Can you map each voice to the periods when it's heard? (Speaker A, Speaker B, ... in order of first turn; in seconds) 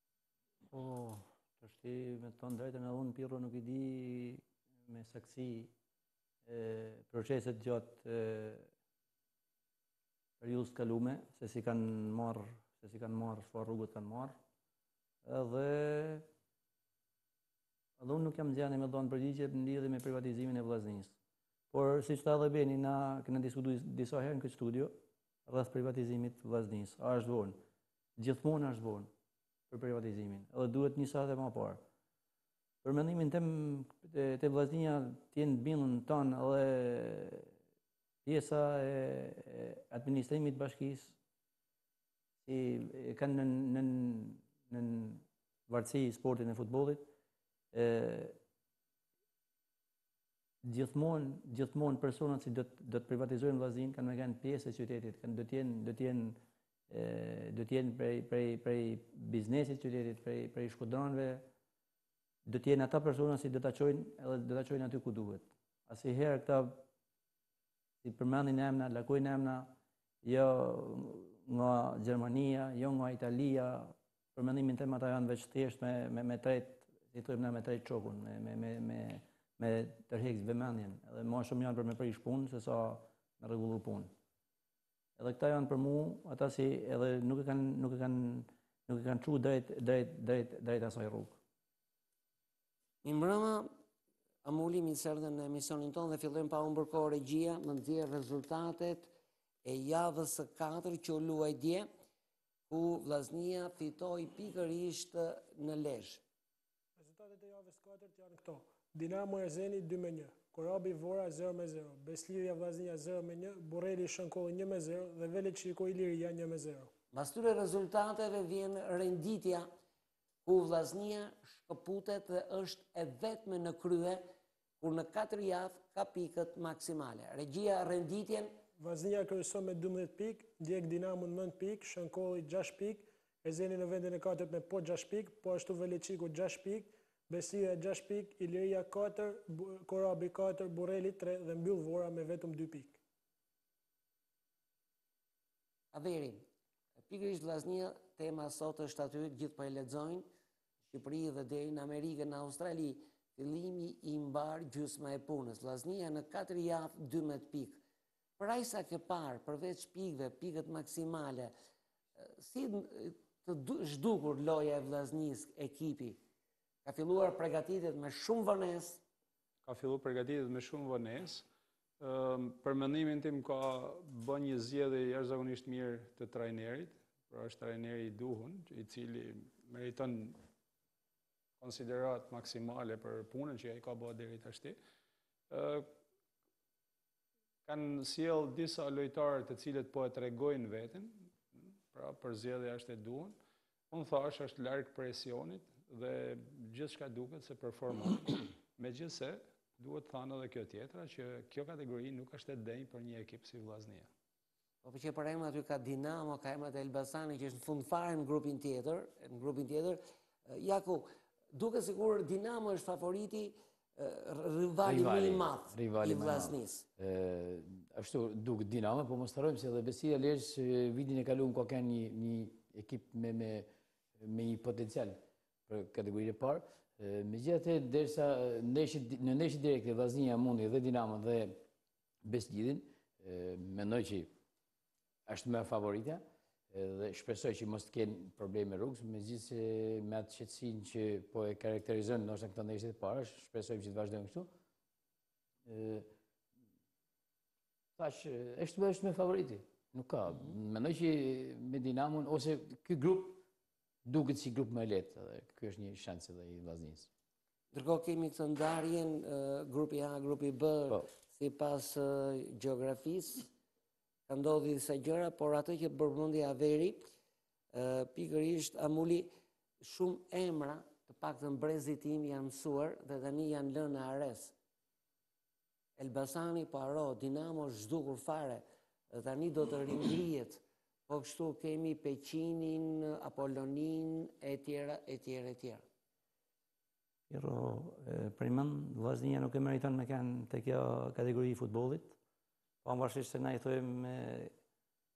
Speaker A: 0.7-5.7, 6.5-8.7, 10.4-14.4, 15.2-16.2, 18.0-21.1, 21.7-24.9, 25.5-27.6, 28.2-29.1, 29.7-31.8, 32.8-37.5, 38.2-41.1, 42.5-47.0, 47.7-48.3, 50.6-56.4, 56.9-61.4, 62.4-66.8, 68.0-69.7, 70.2-84.1, 85.2-91.4, 287.3-292.1, 292.8-294.5
Speaker B: 93.0-93.7, 94.4-99.1, 99.6-101.9, 102.7-106.2, 117.1-119.7, 120.5-124.2, 124.8-128.5, 145.9-146.4, 147.0-150.2, 150.9-157.8, 158.4-161.5, 162.2-166.2, 166.8-169.0, 204.8-216.8, 257.7-263.5, 264.3-267.1, 267.7-274.5, 276.0-285.8
Speaker C: 107.0-116.9, 128.8-143.0
Speaker D: 169.6-171.4, 172.0-180.4, 181.6-184.8, 185.5-185.9, 187.7-191.3, 191.9-193.3, 193.9-204.1
Speaker E: 214.8-223.7, 224.2-231.6, 232.2-234.3, 235.3-244.5, 245.7-246.1, 248.0-253.4, 254.1-257.1